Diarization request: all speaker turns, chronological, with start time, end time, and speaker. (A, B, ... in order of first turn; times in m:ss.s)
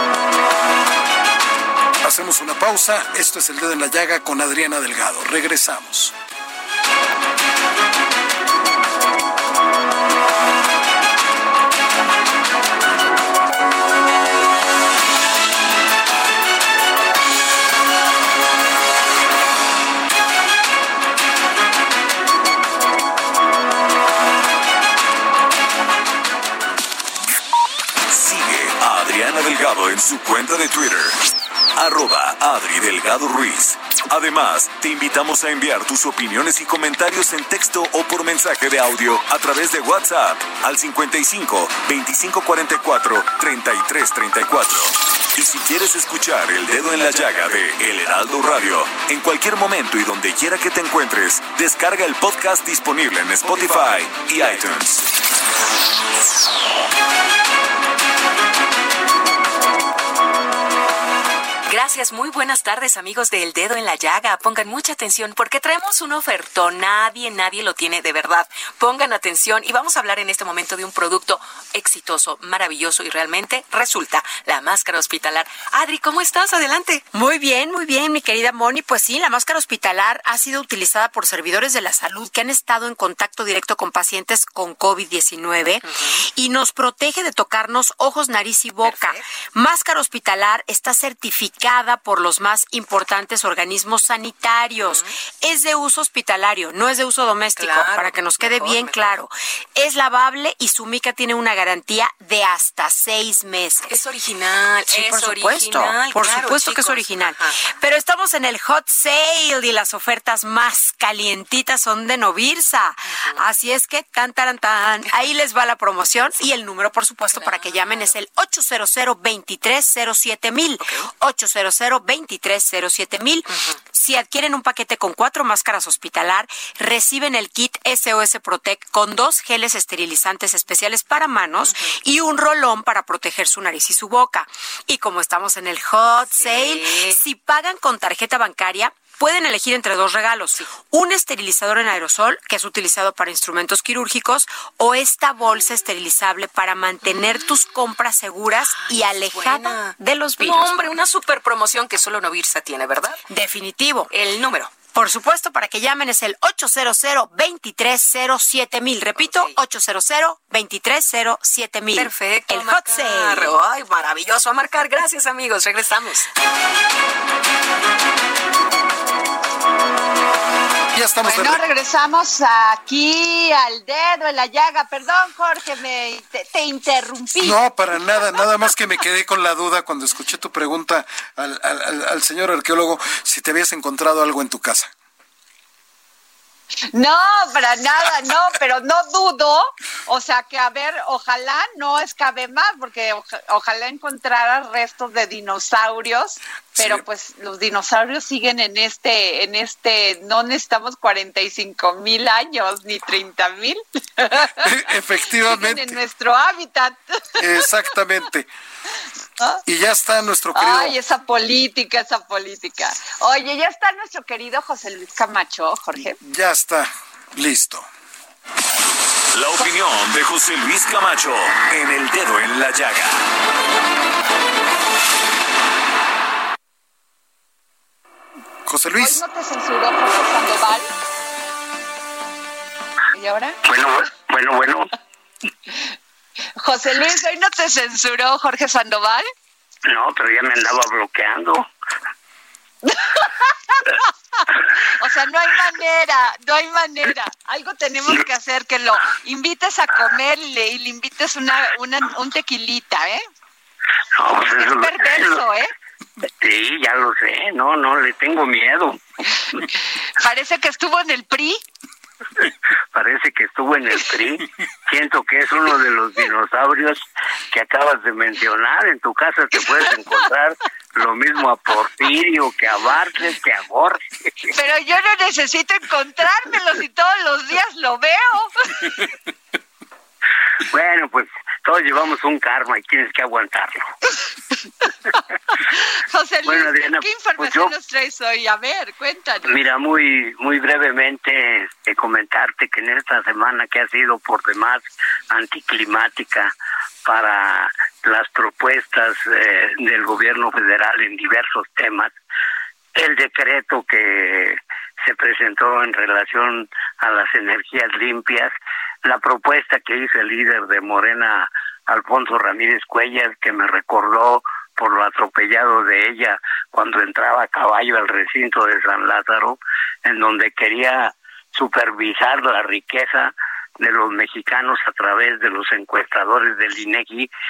0:02.0-0:06.1 A
0:28.1-0:31.2 B
0:31.8-0:55.1 B
1:01.7-1:17.0 C
1:17.1-1:44.0 D
1:28.8-1:29.2 C
1:37.5-1:39.2 C
1:43.9-1:47.5 C
1:44.9-2:30.7 D
1:57.3-1:58.1 C
2:16.3-2:17.2 C
2:28.7-2:33.2 C
2:33.3-2:34.1 D
2:34.1-2:34.8 C
2:34.8-2:43.5 D
2:39.2-2:39.5 C
2:41.9-2:46.3 C
2:50.9-2:51.6 A
2:51.2-2:57.6 E
2:57.4-3:04.9 A
3:06.9-3:24.6 E
3:16.7-3:17.0 A
3:24.6-3:26.0 A
3:25.3-3:27.7 E
3:27.4-3:28.5 A
3:29.6-3:31.0 A
3:30.5-3:36.2 E
3:36.2-3:37.9 A
3:39.3-3:43.2 B
3:48.6-3:49.2 A
3:49.0-3:50.9 E
3:53.1-3:53.6 E
3:53.6-3:54.9 F
3:56.6-3:59.3 E
3:59.8-4:01.7 F
4:02.8-4:03.9 E
4:05.0-4:13.2 E
4:14.1-4:15.4 F
4:14.5-4:15.7 E
4:16.2-4:19.0 F
4:20.2-4:21.6 E
4:22.9-4:34.0 F
4:34.5-4:38.9 E
4:40.6-4:43.8 F
4:45.9-4:49.5 E
4:46.4-4:47.7 F
4:49.4-4:56.5 F
4:57.0-5:02.1 F
5:02.9-5:08.5 F
5:09.0-5:27.3 F